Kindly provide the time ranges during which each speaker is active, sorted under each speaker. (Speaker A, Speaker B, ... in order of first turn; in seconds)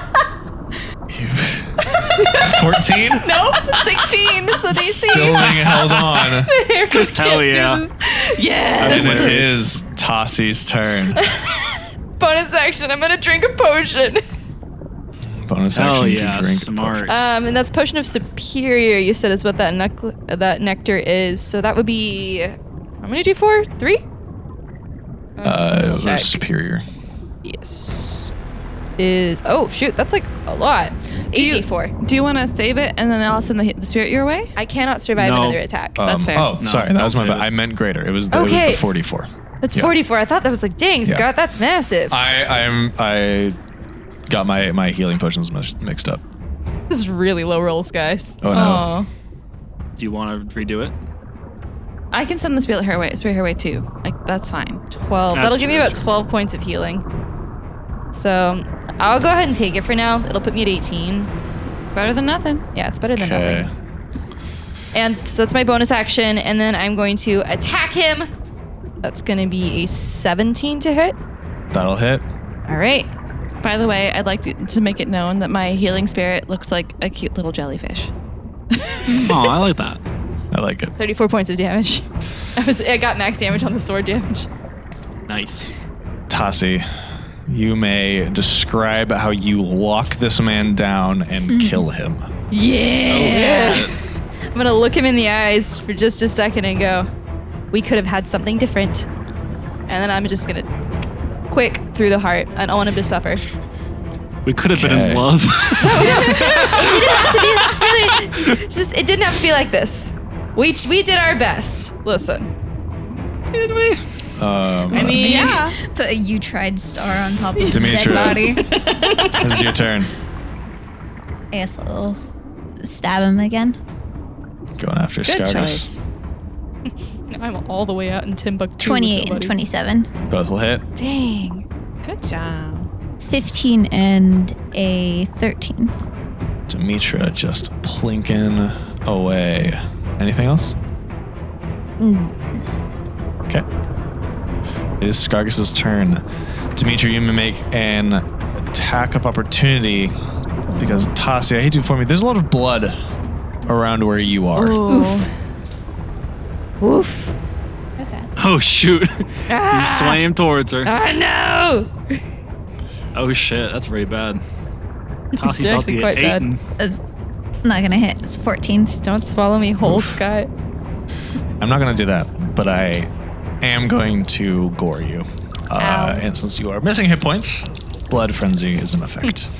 Speaker A: 1.1-3.4, 4.7-6.5, 8.8-11.2, 15.3-17.1, 25.4-26.9, 36.0-39.9, 42.1-43.6, 44.3-46.2, 48.4-48.9, 63.1-63.7, 71.7-72.2, 80.5-80.9, 86.3-86.9, 87.5-92.3, 104.7-105.5, 114.4-115.5, 117.7-118.6, 119.3-120.1, 124.8-125.9, 130.3-130.8, 136.7-140.8, 145.0-146.2, 146.8-150.1, 150.8-153.0, 153.7-154.8, 169.8-170.2, 171.6-173.1, 173.6-179.5
Speaker B: 2.1-2.5, 3.2-4.1, 5.1-5.7, 6.4-8.2, 11.2-11.7, 12.2-14.2, 17.1-24.0, 25.4-26.4, 27.4-28.3, 29.0-31.9, 34.6-36.0, 38.3-38.8, 39.6-42.2, 46.9-48.4, 54.9-57.0, 58.1-61.3, 62.7-63.7, 64.9-68.3, 69.0-71.2, 72.7-73.1, 78.9-79.4, 81.0-84.5, 92.5-93.9, 94.5-97.1, 97.7-99.1, 99.9-100.7, 101.5-103.4, 105.8-112.5, 114.9-115.7, 117.6-119.5, 127.3-129.5, 131.0-131.6, 154.8-155.3, 156.8-157.3, 159.5-160.2, 160.8-161.9, 165.3-166.5, 169.0-170.5
Speaker C: 3.2-5.9, 8.2-9.5, 31.3-34.5, 36.0-36.6, 48.5-49.1, 52.1-54.8, 62.0-62.6, 73.6-78.1, 115.0-115.7, 118.5-119.3, 125.2-126.0, 132.0-132.9, 175.8-176.2
Speaker D: 6.9-7.8, 8.8-9.7, 15.7-17.3, 35.2-35.6, 36.6-37.5, 50.0-50.9, 55.3-56.1, 79.1-80.0, 85.3-85.7, 93.1-94.0, 104.5-107.8, 113.5-114.0, 158.4-160.9, 163.1-164.4, 165.4-166.6
Speaker E: 91.5-91.9, 115.0-118.6, 121.5-122.2, 122.8-123.8, 128.8-130.1, 133.2-135.9, 142.0-142.7, 150.7-151.1, 154.6-155.2, 167.6-169.0